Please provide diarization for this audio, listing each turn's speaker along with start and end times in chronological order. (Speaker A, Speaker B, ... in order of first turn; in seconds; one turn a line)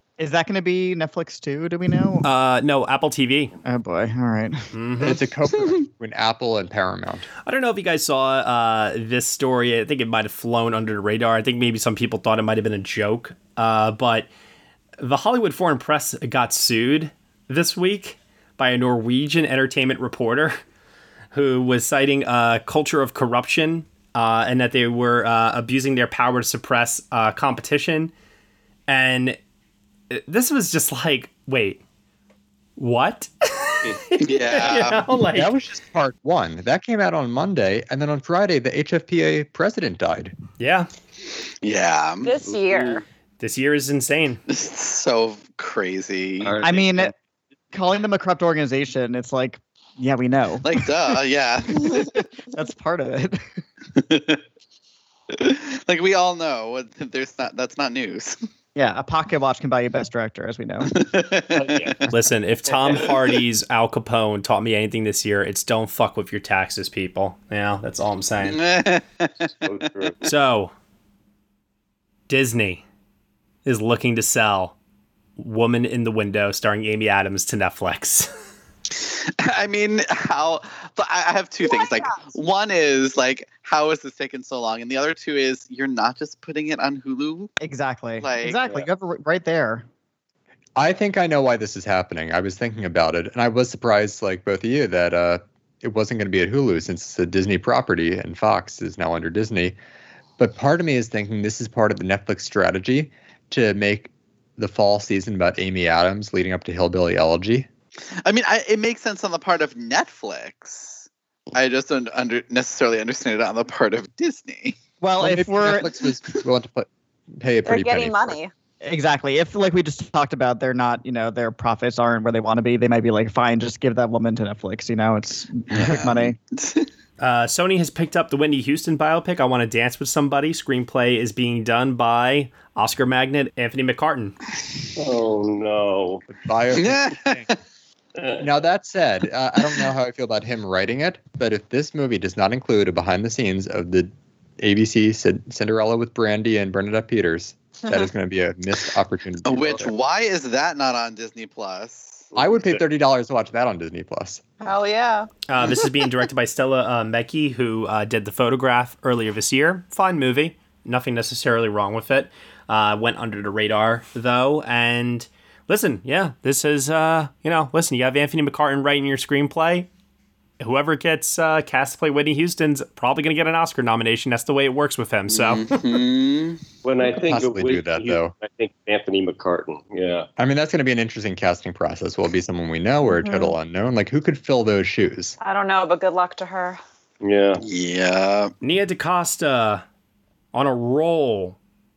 Speaker A: 0.2-2.3
Speaker B: 2.2-3.5
Speaker A: 3.6-4.7
Speaker B: 4.7-5.2
Speaker C: 5.0-7.3
Speaker B: 7.5-14.3
Speaker B: 15.0-20.6
Speaker B: 21.3-28.1
Speaker B: 28.9-29.4
Speaker B: 30.1-31.8
Speaker B: 32.8-35.5
Speaker D: 34.2-35.0
Speaker C: 35.3-40.4
Speaker B: 40.6-40.9
Speaker D: 41.6-42.3
Speaker E: 42.2-43.0
Speaker F: 42.5-43.0
Speaker B: 43.4-44.4
Speaker D: 44.5-46.6
Speaker F: 46.4-47.1
Speaker A: 46.6-47.1
Speaker A: 47.7-50.9
Speaker D: 50.6-52.1
Speaker A: 51.9-53.4
Speaker D: 53.9-54.4
Speaker D: 55.3-58.4
Speaker A: 58.8-60.9
Speaker D: 60.9-62.1
Speaker F: 61.6-62.0
Speaker B: 62.1-68.6
Speaker D: 68.5-69.5
Speaker F: 69.7-70.2
Speaker B: 70.2-70.7
Speaker B: 72.3-72.8
Speaker B: 73.7-74.7
Speaker B: 75.4-78.3
Speaker D: 78.9-87.5
Speaker E: 81.6-82.3
Speaker A: 87.6-89.8
Speaker D: 88.2-88.6
Speaker C: 90.8-99.8
Speaker C: 100.4-107.7
Speaker D: 108.2-114.8
Speaker A: 115.0-115.9
Speaker C: 115.2-118.4
Speaker E: 117.7-118.5
Speaker A: 118.8-126.4
Speaker D: 125.7-126.9
Speaker B: 127.2-134.3
Speaker F: 135.0-136.2
Speaker C: 136.3-137.5
Speaker D: 136.7-137.6
Speaker F: 138.2-138.4
Speaker C: 138.4-149.9
Speaker D: 149.4-152.3
Speaker F: 152.3-152.8
Speaker C: 152.4-154.4
Speaker E: 154.6-155.3
Speaker B: 155.5-169.9
Speaker B: 170.6-175.7
Speaker D: 175.3-176.6
Speaker F: 176.8-180.3
Speaker C: 177.0-178.3
Speaker C: 180.4-185.4
Speaker E: 183.1-183.6
Speaker E: 185.4-186.8
Speaker F: 187.2-187.6
Speaker D: 187.6-188.5
Speaker B: 188.6-189.8
Speaker B: 190.5-191.6